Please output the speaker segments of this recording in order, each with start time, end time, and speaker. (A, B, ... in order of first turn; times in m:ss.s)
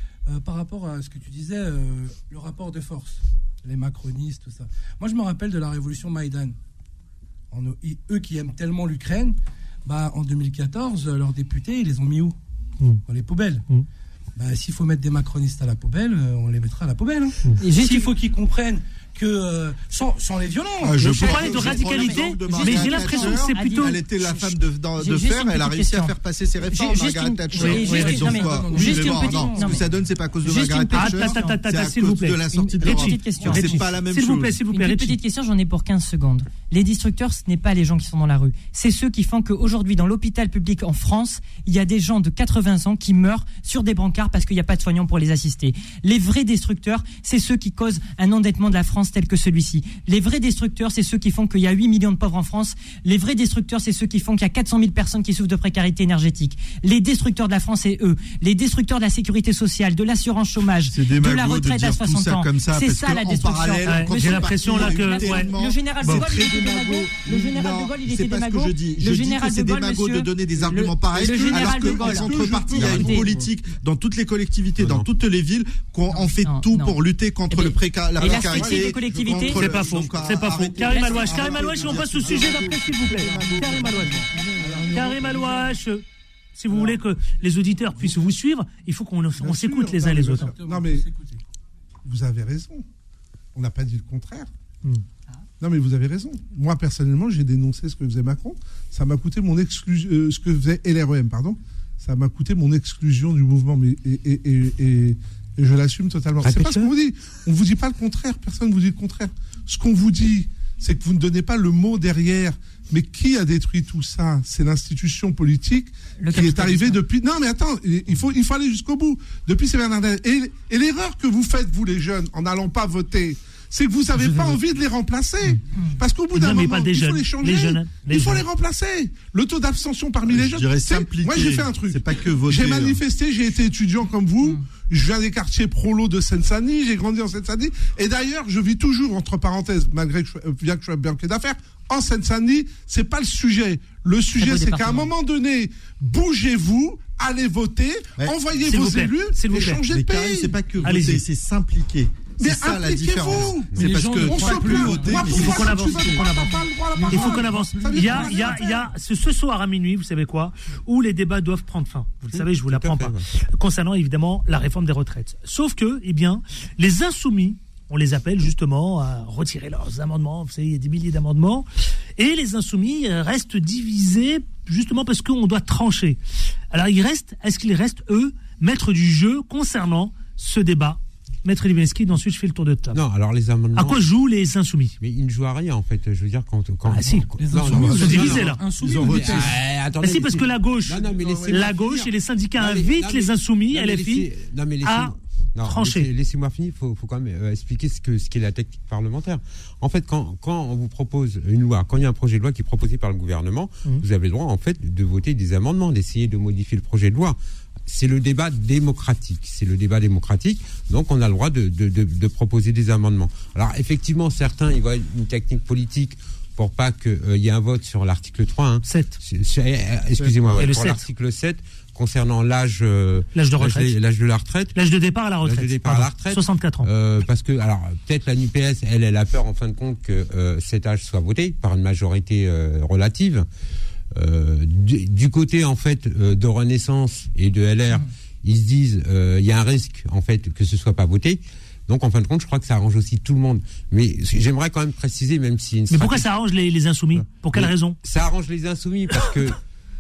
0:00.3-0:06.6 A
0:07.5-0:12.4 A
0:13.0-0:13.6 A
0:14.4-0:21.3 A
0:17.6-0:18.1 B
0:20.8-0:34.6 C
0:21.1-0:24.0 D
0:21.1-0:29.8 B
0:27.6-0:28.3 D
0:27.6-0:30.0 A
0:30.4-0:31.6 B
0:30.9-0:35.2 D
0:32.5-0:33.8 B
0:33.3-0:33.8 A
0:34.7-1:13.3 B
1:00.8-1:24.8 C
1:03.9-1:05.5 D
1:06.0-1:06.3 D
1:10.7-1:13.5 E
1:12.7-1:13.1 F
1:14.8-1:15.1 F
1:16.4-1:19.7 B
1:18.2-1:20.2 E
1:19.5-1:24.2 D
1:20.8-1:21.6 B
1:21.4-1:22.1 E
1:24.3-1:25.8 A
1:24.9-1:26.0 D
1:26.6-1:30.5 D
1:26.7-1:27.0 E
1:29.3-1:31.1 E
1:30.2-1:31.4 A
1:32.0-1:32.8 E
1:33.5-1:34.5 E
1:35.6-2:30.6 E
1:46.4-1:46.9 F
1:56.2-1:57.0 B
2:04.2-2:04.6 D
2:06.3-2:08.4 D
2:10.2-2:13.0 C
2:24.4-2:25.1 B
2:28.6-2:29.8 D
2:29.9-2:36.0 C
2:30.8-2:31.2 D
2:32.4-2:38.8 E
2:33.8-2:35.4 A
2:35.1-2:51.6 D
2:37.0-2:38.4 A
2:42.3-2:43.2 F
2:52.2-2:56.2 D
2:56.7-3:03.0 D
3:02.9-3:04.0 F
3:03.7-3:04.9 D
3:05.0-3:44.8 F
3:06.9-3:08.6 D
3:07.4-3:09.6 A
3:07.7-3:09.5 C
3:10.0-3:14.3 D
3:11.1-3:11.7 E
3:14.8-3:16.1 D
3:38.8-3:39.2 D
3:40.2-3:40.6 C
3:40.6-3:41.0 D
3:43.3-3:43.9 D
3:44.7-3:46.9 D
3:45.4-3:53.4 F
3:54.1-4:06.3 F
4:05.9-4:08.0 D
4:07.1-4:09.6 F